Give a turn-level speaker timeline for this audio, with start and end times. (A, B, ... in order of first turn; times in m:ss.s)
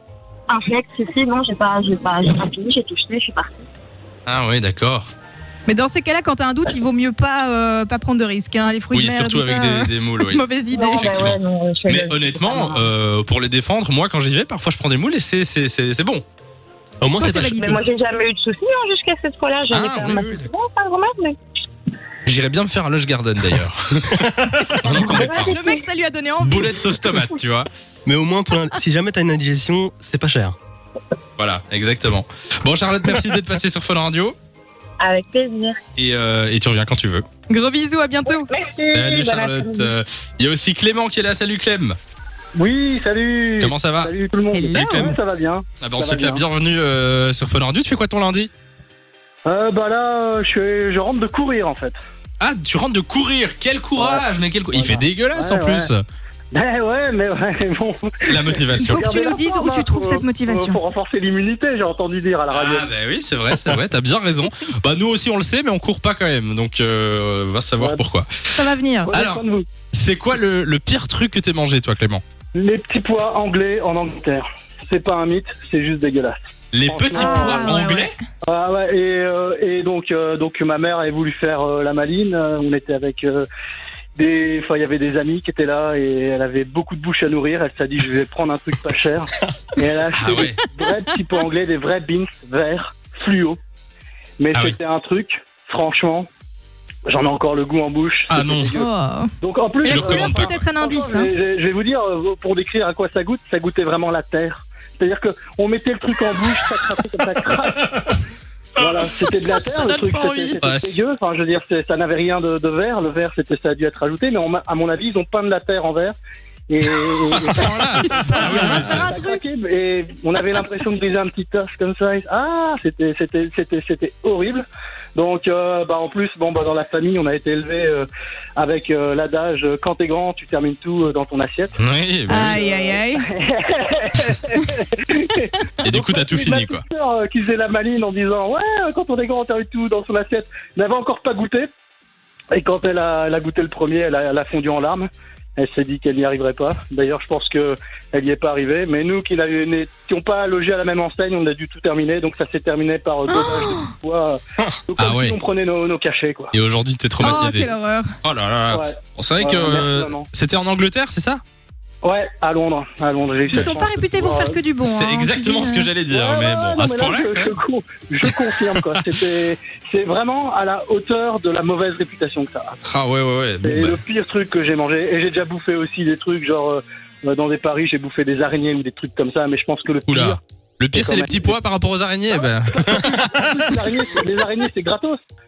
0:00.5-0:03.6 A
0:04.3-0:05.1 B
0:05.7-0:11.2 C
0:08.9-0:16.2 B
0:10.7-0:12.9 A
0:17.0-0:17.6 D
0:17.2-0:17.8 C
0:17.5-0:21.4 A
0:19.7-0:20.5 B
0:22.2-0:25.5 B
0:24.9-0:25.8 A
0:25.1-0:27.3 C
0:26.4-0:27.7 B
0:28.0-0:30.6 D
0:31.4-0:34.4 B
0:35.0-0:35.8 A
0:36.0-0:37.2 B
0:37.5-0:38.5 C
0:38.2-0:39.9 A
0:38.9-0:42.0 B
0:42.5-0:46.4 E
0:43.6-0:44.1 B
0:44.5-0:45.2 C
0:44.7-0:45.1 B
0:45.8-0:48.5 B
0:49.4-0:52.0 E
0:52.4-0:56.0 B
0:54.0-0:55.9 E
0:56.5-1:02.9 E
0:58.3-0:59.1 B
0:58.8-1:00.8 C
1:02.5-1:08.5 B
1:08.5-1:09.1 C
1:09.0-1:09.7 E
1:09.1-1:09.4 B
1:09.9-1:12.2 B
1:12.5-1:17.8 E
1:16.7-1:18.1 B
1:17.1-1:18.1 C
1:18.4-1:23.4 E
1:24.2-1:33.6 E
1:30.2-1:30.6 B
1:34.4-1:36.3 E
1:37.1-1:38.9 E
1:38.3-1:38.8 B
1:38.7-1:39.3 C
1:39.4-1:48.1 E
1:39.8-1:41.3 C
1:39.9-1:40.5 B
1:48.8-1:56.2 E
1:49.3-1:50.6 C
1:50.6-1:51.0 B
1:56.7-2:11.8 E
1:57.3-1:59.1 B
1:58.1-1:59.4 C
2:11.8-2:12.6 B
2:12.3-2:13.3 C
2:12.4-2:21.7 E
2:15.8-2:16.8 B
2:22.5-2:36.5 E
2:33.3-2:33.9 C
2:35.0-2:35.4 B
2:36.5-2:37.7 B
2:37.2-2:38.1 C
2:38.2-2:41.4 B
2:38.7-2:40.3 E
2:42.0-2:44.6 E
2:43.5-2:45.9 C
2:44.8-2:47.5 B
2:46.1-2:52.8 E
2:48.2-2:48.8 B
2:52.9-2:54.0 B
2:53.6-3:00.4 E
3:00.1-3:03.6 B
3:00.9-3:01.5 E
3:02.3-3:05.2 E